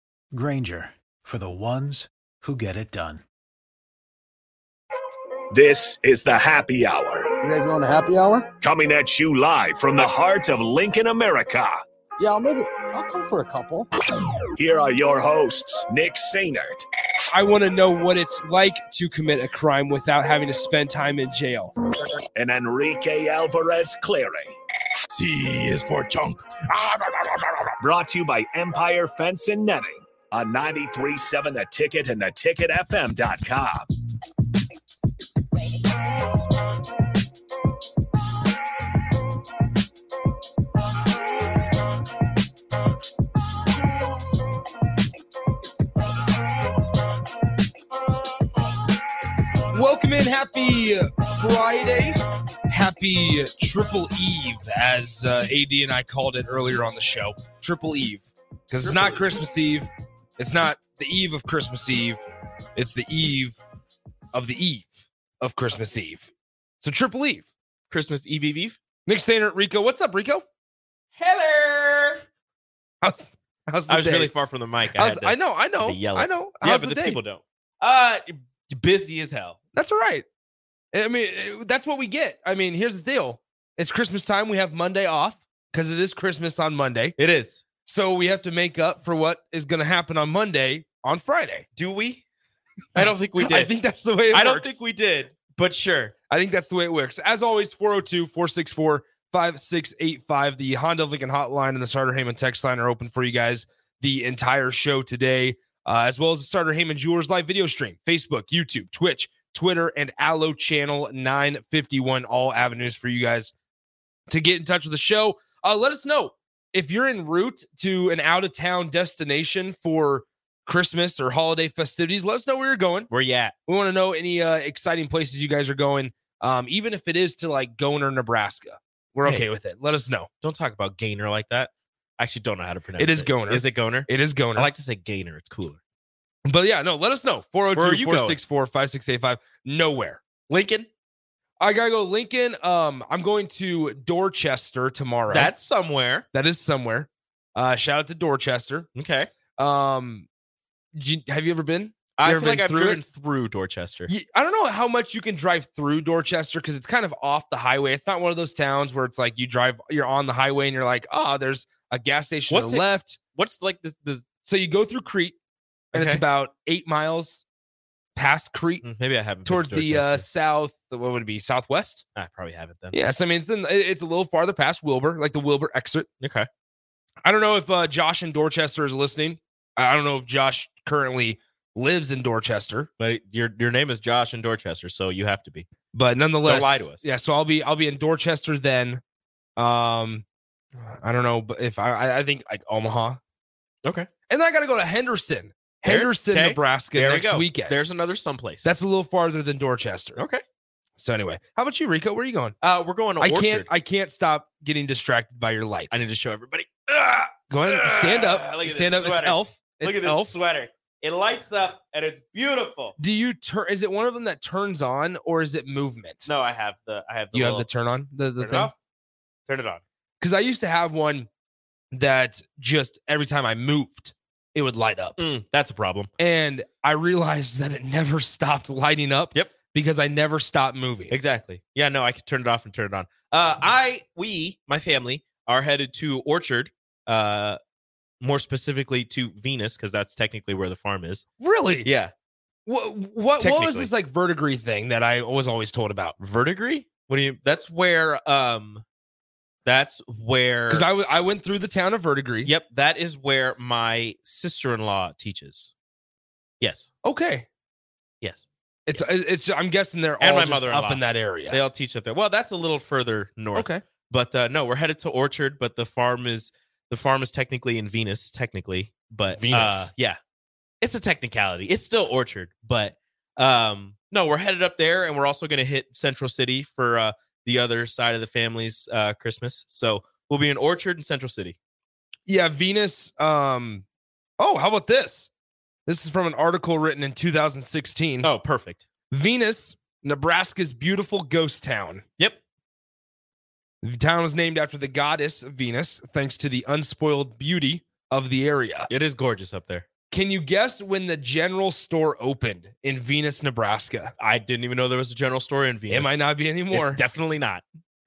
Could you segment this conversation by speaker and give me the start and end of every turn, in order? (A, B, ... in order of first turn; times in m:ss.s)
0:00.3-0:03.2 A
0:05.5-0:07.3 B
0:07.4-0:08.5 C
0:08.6-0:11.8 B
0:12.2-0:13.9 C
0:14.6-0:16.8 B
0:17.3-0:21.7 D
0:22.3-0:24.5 B
0:25.1-0:27.3 E
0:27.8-0:33.9 B
0:49.7-1:02.2 D
0:58.8-0:59.2 E
1:02.8-1:03.6 D
1:04.3-1:06.3 D
1:06.8-1:07.4 D
1:07.9-1:08.8 E
1:09.1-1:10.4 D
1:11.2-1:12.2 E
1:13.0-1:14.3 D
1:13.9-1:19.6 E
1:14.9-1:17.2 D
1:19.7-1:20.2 D
1:20.9-1:27.2 D
1:27.2-1:27.6 E
1:27.8-1:31.6 D
1:31.8-1:32.2 E
1:32.9-1:33.7 E
1:33.0-1:34.8 D
1:34.3-1:36.1 E
1:36.3-1:53.5 D
1:54.3-2:03.1 D
2:03.1-2:03.5 E
2:03.7-2:10.3 D
2:10.4-2:15.8 E
2:13.0-2:14.7 D
2:16.4-2:20.2 D
2:17.7-2:18.4 E
2:20.5-2:20.9 E
2:21.6-2:25.5 D
2:25.3-2:26.2 E
2:26.3-2:28.9 D
2:28.9-2:29.3 E
2:29.6-2:30.2 D
2:30.9-2:33.0 D
2:32.2-2:34.1 E
2:34.1-2:43.2 D
2:42.5-2:44.3 E
2:44.4-2:45.4 D
2:45.9-2:46.2 E
2:45.9-2:47.4 D
2:48.2-2:48.8 D
2:48.8-2:50.2 E
2:49.4-2:52.0 D
2:52.2-2:53.0 E
2:52.9-2:56.1 D
2:56.2-2:56.5 E
2:57.2-3:02.9 D
3:03.0-3:05.7 E
3:05.9-3:09.0 D
3:06.4-3:07.1 E
3:09.6-3:10.2 D
3:10.8-3:13.2 D
3:13.8-3:14.1 E
3:14.3-3:17.7 D
3:15.8-3:18.7 E
3:18.6-3:20.2 D
3:20.2-3:20.4 E
3:21.0-3:22.6 D
3:22.6-3:23.7 E
3:23.2-3:26.0 D
3:25.9-3:33.0 E
3:27.5-3:30.3 D
3:33.0-3:36.3 D
3:36.2-3:37.6 E
3:37.3-3:38.7 D
3:38.4-3:38.7 E
3:39.5-3:39.8 E
3:40.2-3:41.3 D
3:41.9-3:45.2 D
3:45.2-3:46.1 E
3:46.2-3:51.1 D
3:51.1-3:57.6 E
3:58.2-4:01.2 E
4:01.4-4:01.9 D
4:01.8-4:02.1 E
4:02.6-4:06.2 D
4:03.4-4:03.9 E
4:06.2-4:08.8 E
4:09.6-4:10.8 E
4:10.7-4:12.5 D
4:12.4-4:15.7 E
4:16.6-4:16.9 E
4:17.0-4:17.4 D
4:18.2-4:19.1 E
4:18.9-4:21.6 D
4:20.2-4:30.2 E
4:23.5-4:23.8 D
4:29.3-4:29.9 D
4:30.8-4:41.6 E
4:42.3-4:43.8 D
4:44.4-4:45.3 D
4:45.8-4:48.3 D
4:48.2-4:48.8 E
4:49.1-4:52.0 D
4:53.8-4:58.9 D
4:58.9-4:59.9 E
5:00.1-5:04.1 D
5:04.2-5:07.6 E
5:05.9-5:07.0 D